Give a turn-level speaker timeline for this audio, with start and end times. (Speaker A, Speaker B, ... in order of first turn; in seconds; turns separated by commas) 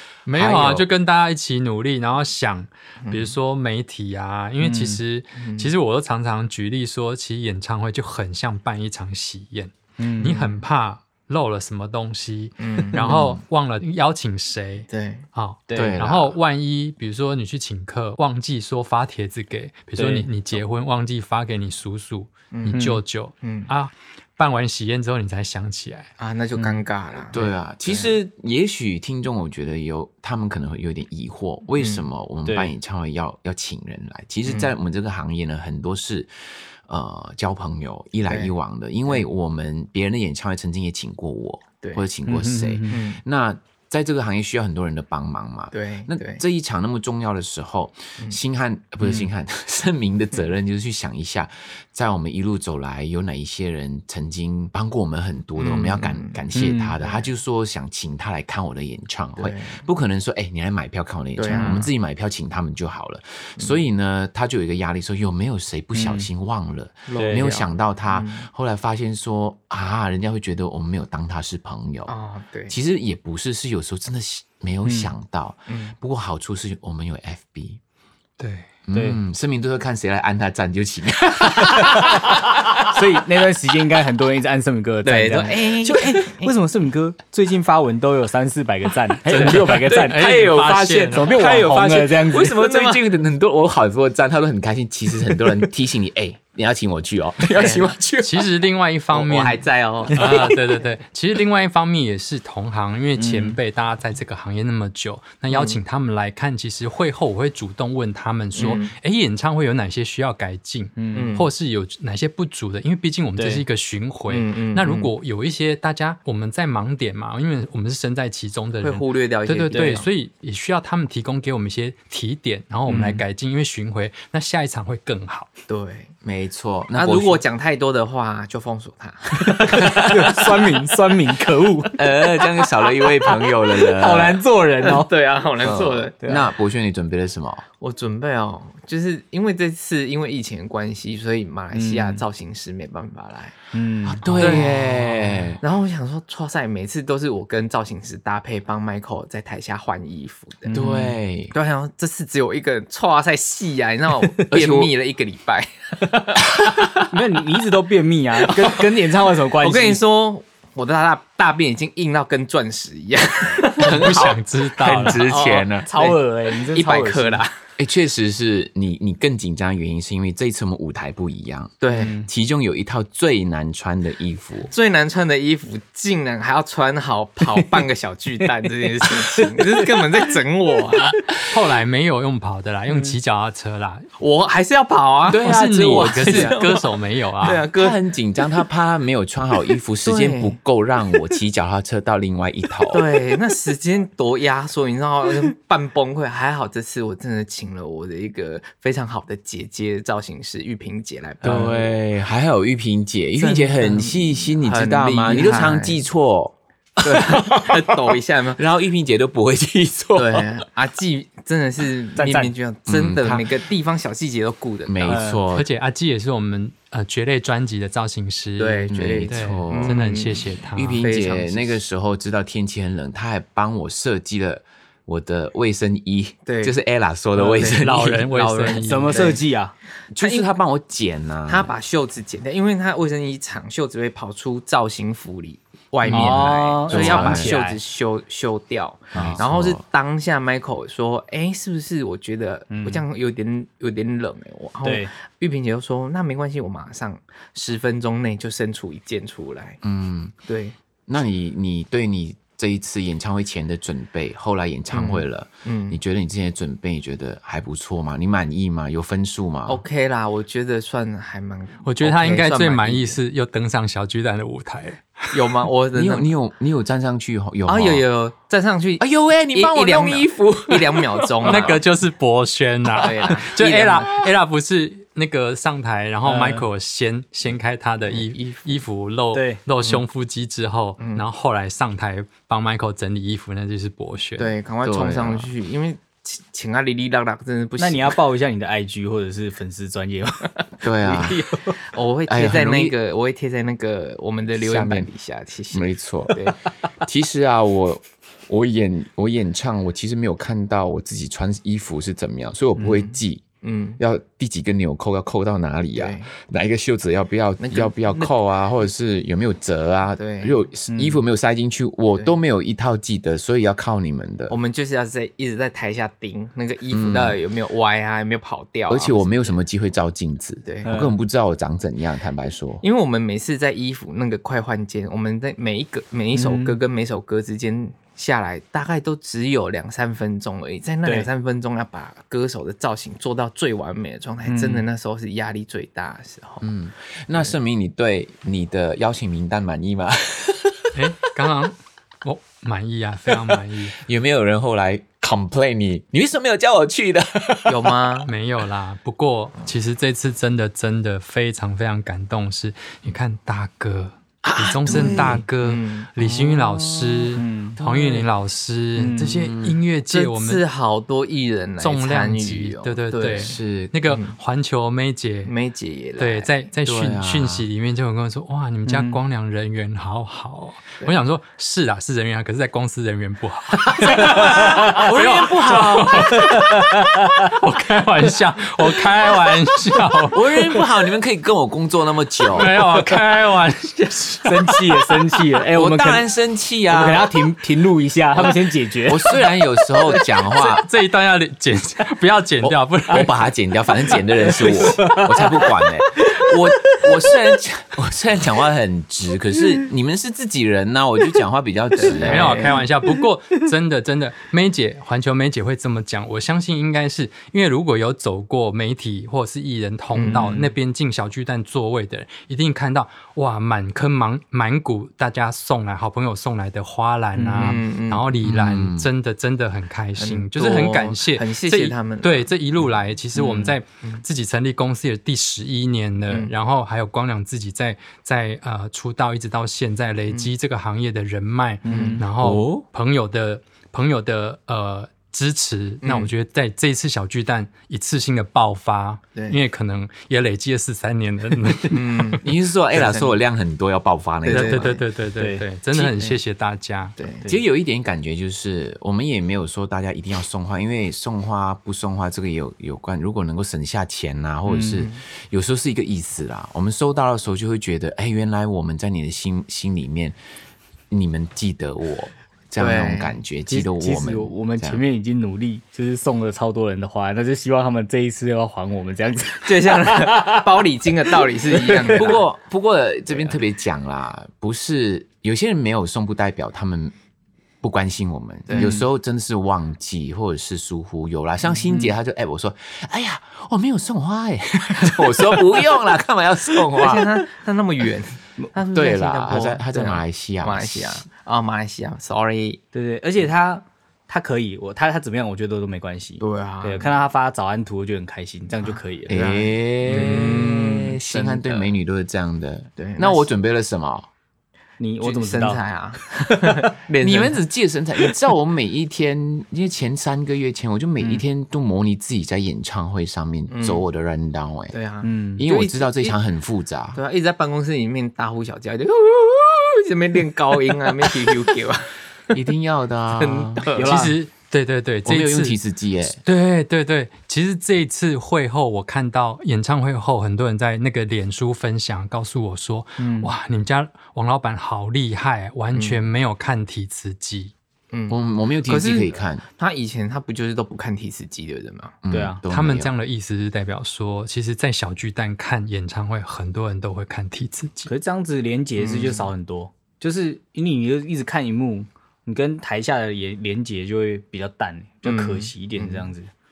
Speaker A: 0.2-26.1, Speaker B: 0.4-0.8, Speaker C: 3.0-3.3, Speaker D: 4.6-5.0, Speaker C: 5.4-5.7, Speaker D: 10.0-10.4, Speaker C: 10.3-10.5, Speaker C: 12.6-13.2, Speaker B: 13.0-13.4, Speaker C: 14.9-15.2, Speaker D: 15.7-16.0, Speaker B: 15.8-16.4, Speaker D: 20.0-20.3, Speaker C: 22.5-23.7, Speaker D: 22.7-23.0, Speaker C: 26.2-28.1, Speaker B: 27.3-36.3, Speaker C: 31.8-32.0, Speaker D: 32.4-32.7, Speaker C: 34.5-34.7, Speaker B: 36.9-72.1, Speaker C: 38.3-38.5, Speaker C: 41.8-42.1, Speaker D: 42.3-43.0, Speaker C: 42.9-43.2, Speaker C: 45.7-46.4, Speaker D: 49.0-49.3, Speaker C: 55.6-56.4, Speaker D: 56.5-57.0, Speaker C: 57.0-57.3, Speaker C: 59.4-59.8, Speaker C: 61.4-61.9, Speaker D: 65.9-66.3, Speaker C: 67.1-68.5, Speaker D: 67.2-67.5, Speaker C: 72.1-72.8, Speaker B: 72.7-77.8, Speaker D: 74.8-75.1, Speaker C: 75.7-75.9, Speaker A: 78.4-78.7, Speaker B: 78.9-83.0, Speaker D: 78.9-79.2, Speaker D: 81.8-90.3, Speaker C: 85.0-86.5, Speaker B: 89.2-98.5, Speaker A: 89.2-91.4, Speaker D: 91.1-92.7, Speaker C: 92.4-93.0, Speaker C: 97.5-97.9, Speaker A: 98.2-125.5, Speaker C: 99.1-100.6, Speaker D: 100.1-100.6, Speaker D: 103.2-103.6, Speaker C: 105.5-105.8, Speaker C: 108.5-108.9, Speaker D: 111.0-111.3, Speaker C: 111.2-111.5, Speaker D: 113.4-113.6, Speaker C: 114.3-115.1, Speaker C: 118.8-120.1, Speaker D: 119.7-120.0, Speaker D: 122.9-123.2, Speaker C: 125.7-126.1, Speaker B: 126.2-127.4, Speaker C: 126.9-130.6, Speaker D: 129.4-132.1, Speaker B: 129.7-130.5, Speaker B: 132.0-134.4, Speaker D: 133.7-135.1, Speaker C: 134.8-136.2, Speaker B: 135.6-137.7, Speaker D: 136.2-136.5, Speaker C: 137.8-143.6, Speaker D: 141.7-142.2, Speaker D: 143.7-144.7, Speaker B: 144.0-145.6, Speaker C: 144.4-145.1, Speaker C: 145.6-150.8, Speaker D: 150.7-151.2, Speaker B: 150.7-151.5, Speaker C: 151.5-156.5, Speaker B: 154.5-154.9, Speaker B: 156.5-157.1, Speaker D: 157.1-160.0, Speaker C: 159.6-164.3, Speaker A: 163.8-165.2, Speaker B: 163.8-165.9, Speaker D: 165.0-167.4, Speaker C: 165.9-167.6, Speaker B: 167.8-174.7, Speaker C: 171.8-172.2, Speaker D: 171.9-172.3, Speaker C: 174.7-181.2, Speaker D: 179.0-180.2, Speaker D: 180.9-181.2, Speaker A: 181.4-184.1, Speaker D: 182.9-183.2, Speaker C: 184.2-188.0, Speaker B: 185.3-186.7, Speaker A: 185.4-187.7, Speaker B: 187.7-193.0, Speaker C: 190.0-190.6, Speaker C: 192.9-201.8, Speaker B: 201.4-208.0, Speaker D: 201.4-201.7, Speaker C: 203.4-206.0, Speaker C: 207.0-208.6, Speaker B: 208.6-210.5, Speaker C: 210.2-215.2, Speaker D: 212.2-212.5, Speaker B: 212.9-213.5, Speaker B: 214.9-215.7, Speaker D: 215.1-215.4, Speaker A: 215.5-221.1, Speaker C: 218.6-220.4, Speaker B: 218.9-220.2, Speaker B: 220.7-228.8, Speaker C: 221.0-221.8, Speaker C: 226.4-226.8, Speaker D: 227.3-227.7, Speaker C: 227.6-229.4, Speaker A: 227.7-229.4, Speaker D: 228.7-229.7, Speaker B: 230.1-231.7, Speaker C: 230.2-230.5, Speaker C: 231.5-249.8, Speaker B: 236.1-237.6, Speaker D: 236.1-237.8, Speaker B: 239.1-239.8, Speaker D: 242.7-243.1, Speaker D: 244.8-245.1, Speaker B: 249.8-250.3, Speaker C: 250.4-250.8, Speaker B: 251.1-259.8, Speaker C: 254.9-256.0, Speaker C: 259.7-263.2, Speaker A: 261.8-265.3, Speaker C: 265.3-266.3, Speaker B: 265.9-268.1, Speaker C: 267.7-271.8, Speaker B: 269.0-271.7, Speaker A: 271.4-284.5, Speaker C: 272.9-274.3, Speaker D: 276.2-276.7, Speaker C: 278.1-278.8, Speaker D: 279.3-279.6, Speaker C: 281.0-281.2, Speaker C: 284.4-288.2, Speaker B: 284.8-285.5, Speaker D: 287.8-291.8, Speaker B: 290.8-291.4, Speaker C: 291.1-296.6, Speaker B: 292.3-292.9, Speaker B: 294.6-295.1, Speaker B: 295.7-296.5, Speaker B: 297.0-303.4, Speaker C: 302.8-304.0, Speaker B: 304.0-314.5, Speaker C: 305.9-306.3, Speaker C: 307.6-308.3, Speaker C: 310.2-310.6, Speaker D: 310.9-311.2, Speaker C: 314.5-319.6, Speaker B: 316.9-317.4, Speaker B: 318.9-322.8, Speaker C: 320.6-320.9, Speaker D: 320.8-321.1, Speaker C: 322.8-336.7, Speaker D: 326.3-326.8, Speaker D: 334.4-334.9, Speaker B: 336.6-341.0, Speaker A: 340.9-343.9, Speaker B: 343.3-348.1, Speaker C: 347.7-348.3, Speaker A: 348.3-360.6, Speaker B: 354.4-355.4, Speaker C: 355.6-356.1, Speaker B: 356.2-358.1, Speaker D: 357.4-357.8, Speaker D: 358.9-359.4, Speaker B: 359.3-359.8, Speaker C: 360.1-363.6, Speaker A: 361.8-365.5, Speaker B: 363.3-363.9, Speaker C: 364.1-364.4, Speaker C: 365.4-366.5, Speaker A: 366.2-380.5, Speaker B: 366.8-367.7, Speaker D: 368.9-369.2, Speaker B: 374.0-376.4, Speaker C: 375.4-375.9, Speaker D: 376.3-377.5, Speaker B: 380.3-382.8, Speaker A: 382.5-385.0, Speaker D: 384.4-386.2, Speaker B: 385.7-387.3, Speaker D: 386.9-389.4, Speaker B: 388.3-390.9, Speaker A: 390.1-393.4, Speaker B: 392.6-402.7, Speaker D: 394.4-397.3, Speaker C: 402.1-402.6, Speaker D: 402.1-403.3, Speaker A: 402.2-442.4, Speaker C: 410.1-410.7, Speaker D: 410.3-410.6, Speaker D: 417.4-417.8, Speaker C: 417.6-418.2, Speaker B: 418.4-419.1, Speaker C: 420.2-422.5, Speaker D: 423.4-423.7, Speaker D: 431.8-432.3, Speaker C: 431.9-432.2, Speaker B: 432.4-432.8, Speaker C: 436.0-436.3, Speaker C: 439.3-439.6, Speaker C: 441.9-443.3, Speaker B: 442.4-445.0, Speaker C: 444.5-445.0, Speaker A: 444.5-447.2, Speaker D: 445.4-445.6, Speaker C: 445.9-446.4, Speaker C: 447.2-447.5, Speaker B: 447.4-460.4, Speaker D: 454.7-455.1, Speaker C: 454.9-455.2, Speaker B: 461.1-465.0, Speaker C: 462.8-463.4, Speaker D: 463.7-470.7, Speaker C: 469.6-472.4, Speaker D: 471.3-472.4, Speaker B: 472.1-477.1, Speaker B: 477.8-487.3, Speaker C: 478.7-479.0, Speaker D: 478.7-479.0, Speaker C: 486.9-492.8, Speaker B: 488.9-491.2, Speaker D: 492.9-499.4, Speaker C: 496.4-497.1, Speaker C: 498.8-501.9, Speaker B: 499.3-504.3, Speaker D: 500.1-500.8, Speaker C: 503.0-503.5, Speaker D: 505.0-505.8, Speaker C: 505.2-507.6, Speaker D: 506.5-506.8, Speaker B: 507.2-514.9, Speaker C: 513.7-514.0, Speaker C: 514.9-516.4, Speaker D: 515.2-515.6, Speaker B: 515.6-517.2, Speaker C: 517.1-522.1, Speaker B: 522.5-523.9, Speaker C: 523.4-524.1, Speaker D: 524.0-524.4, Speaker A: 524.0-525.8, Speaker B: 525.2-526.4, Speaker A: 526.4-537.7, Speaker D: 533.2-533.5, Speaker C: 535.9-536.2, Speaker C: 538.1-542.1, Speaker B: 538.3-539.6, Speaker B: 542.2-543.1, Speaker D: 542.3-542.6, Speaker A: 542.6-548.1, Speaker D: 548.1-556.5, Speaker C: 549.0-549.5, Speaker C: 555.2-556.3